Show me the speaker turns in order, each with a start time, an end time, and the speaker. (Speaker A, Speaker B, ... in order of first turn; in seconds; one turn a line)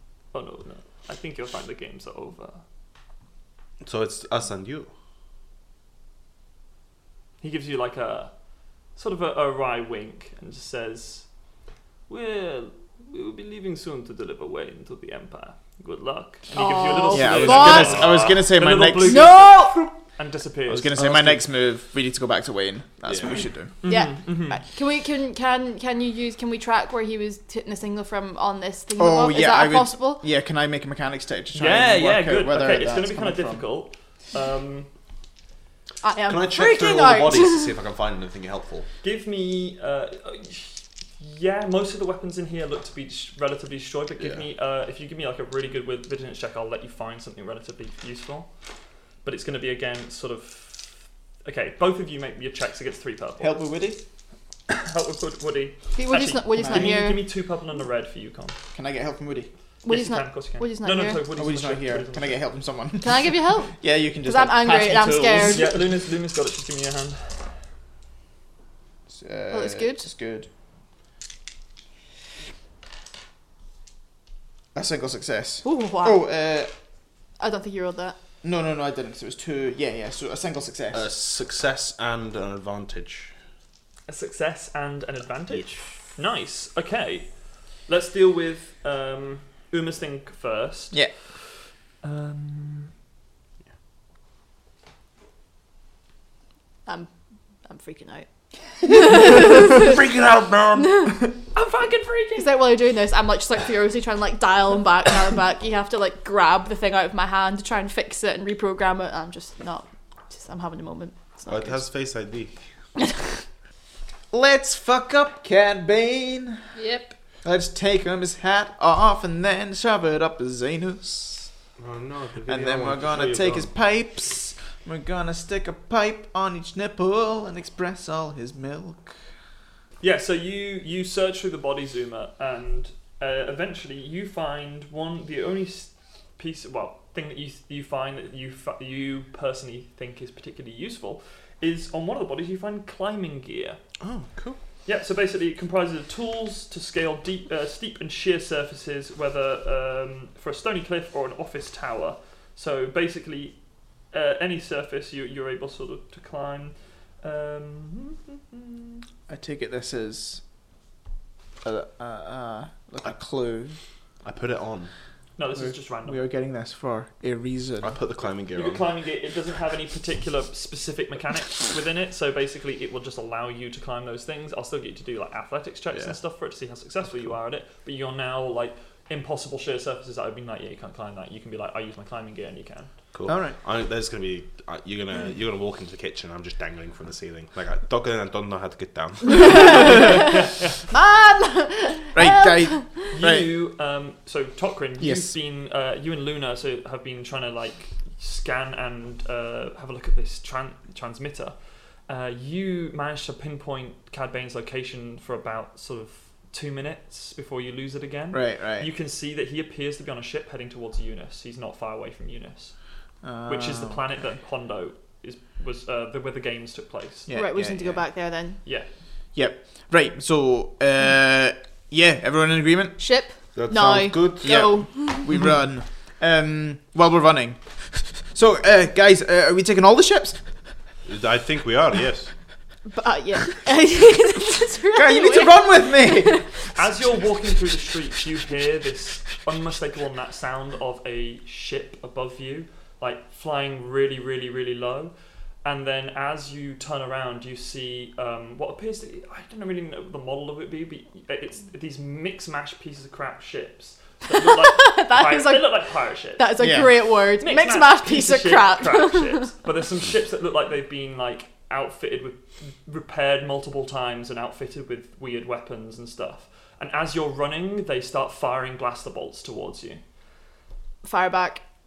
Speaker A: 0.3-2.6
Speaker B: 3.8-4.9
Speaker A: 7.4-8.3
Speaker A: 9.0-11.3
Speaker A: 12.1-21.4
Speaker C: 16.5-18.1
Speaker D: 17.1-19.4
Speaker C: 19.0-19.9
Speaker D: 20.7-23.7
Speaker B: 23.1-23.4
Speaker A: 23.8-24.6
Speaker C: 23.9-30.2
Speaker D: 29.0-33.6
Speaker A: 31.6-34.9
Speaker C: 36.0-37.7
Speaker B: 36.3-38.9
Speaker A: 39.0-48.5
Speaker A: 49.2-53.6
Speaker D: 53.4-54.0
Speaker A: 54.7-58.6
Speaker C: 56.0-57.3
Speaker D: 56.6-56.9
Speaker D: 58.7-59.5
Speaker C: 59.9-61.2
Speaker A: 59.9-62.4
Speaker D: 61.4-65.8
Speaker C: 63.0-65.8
Speaker A: 65.5-67.4
Speaker D: 69.1-70.5
Speaker C: 69.5-70.1
Speaker D: 74.7-76.7
Speaker C: 75.7-76.2
Speaker C: 77.4-78.2
Speaker D: 78.4-81.0
Speaker B: 80.9-83.3
Speaker A: 84.1-87.3
Speaker A: 87.9-91.0
Speaker A: 92.0-92.9
Speaker C: 97.7-98.3
Speaker C: 98.9-100.0
Speaker B: 99.0-101.0
Speaker C: 100.8-101.1
Speaker A: 101.5-102.5
Speaker C: 102.4-111.8
Speaker B: 111.5-112.5
Speaker D: 114.3-116.6
Speaker C: 116.8-117.1
Speaker D: 117.4-121.5
Speaker B: 121.8-123.7
Speaker D: 122.5-129.2
Speaker A: 130.0-143.8
Speaker B: 144.0-144.6
Speaker A: 144.9-153.6
Speaker A: 154.1-159.0
Speaker D: 159.3-160.4
Speaker D: 161.6-163.8
Speaker B: 164.2-164.9
Speaker A: 165.4-166.2
Speaker D: 165.6-168.0
Speaker B: 167.8-168.9
Speaker A: 168.5-182.9
Speaker B: 183.1-190.1
Speaker D: 183.3-183.6
Speaker C: 189.3-190.2
Speaker A: 189.4-190.8
Speaker C: 190.9-192.9
Speaker D: 192.2-193.5
Speaker A: 193.1-201.5
Speaker D: 195.0-195.3
Speaker A: 202.1-212.7
Speaker D: 208.3-208.9
Speaker D: 213.2-214.0
Speaker A: 213.5-217.3
Speaker D: 217.3-218.0
Speaker C: 217.3-218.6
Speaker D: 219.3-223.0
Speaker C: 223.0-225.2
Speaker B: 223.6-224.7
Speaker D: 224.4-230.4
Speaker B: 231.1-232.3
Speaker C: 232.9-236.5
Speaker D: 234.9-236.4
Speaker A: 236.8-245.1
Speaker A: 245.6-256.5
Speaker C: 254.5-259.5
Speaker D: 256.6-256.9
Speaker A: 257.4-270.0
Speaker C: 271.0-271.6